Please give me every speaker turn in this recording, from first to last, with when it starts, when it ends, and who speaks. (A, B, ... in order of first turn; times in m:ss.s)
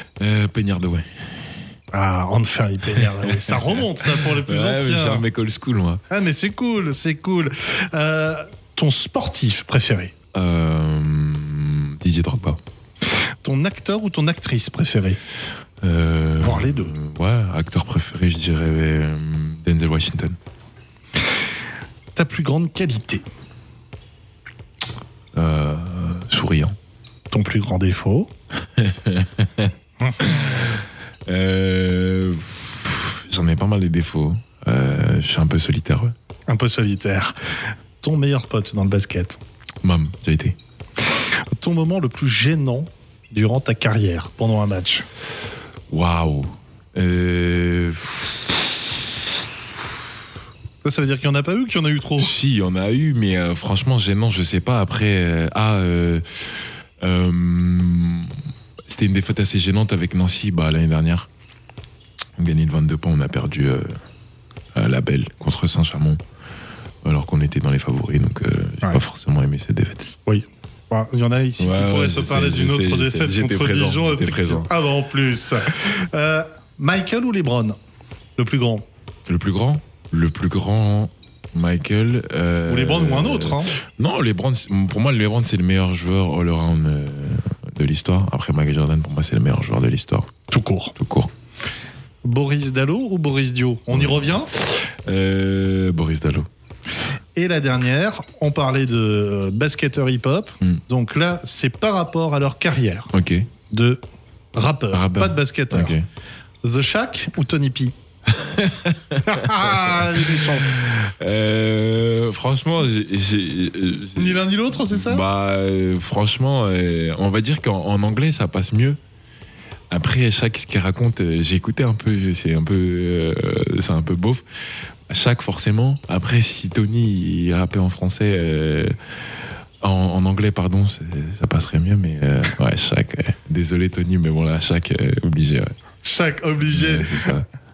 0:00.2-0:01.0 A
0:01.9-0:05.2 B
0:02.9-0:06.0 A
0:06.1-0:10.1 B
0:10.3-0:12.6 A
0:13.4-0:15.2 B
0:15.8-0:20.4 A
0:16.4-0:16.9 B
0:22.1-0:23.2 B
0:25.3-0:26.7 A
0:27.3-0:28.3 B
0:28.8-0:36.1 A
0:30.0-0:30.4 B
0:36.5-0:37.3 B
0:38.0-0:39.4 B
0:39.8-0:40.6 A
0:41.5-0:45.0 B
0:45.9-0:48.6 A
0:50.8-0:52.3 B
0:52.2-1:01.3 A
1:02.4-1:03.9 A
1:04.7-1:06.2 A
1:07.0-1:10.1 A
1:10.2-1:17.8 B
1:11.6-1:14.7 A
1:18.4-1:18.8 B
1:19.3-1:30.3 A
1:22.7-1:23.8 B
1:30.5-1:30.9 B
1:31.0-1:31.3 A
1:32.2-1:34.5 B
1:33.9-1:36.5 A
1:37.4-1:43.1 B
1:43.1-1:43.5 A
1:43.7-1:44.0 B
1:44.5-1:46.0 B
1:44.9-1:46.0 A
1:46.6-1:47.9 B
1:48.3-1:59.0 A
1:49.2-1:50.8 B
1:54.2-1:55.2 B
1:59.9-2:04.4 A
2:05.1-2:09.0 A
2:09.8-2:15.7 A
2:16.0-2:17.1 B
2:16.6-2:17.5 A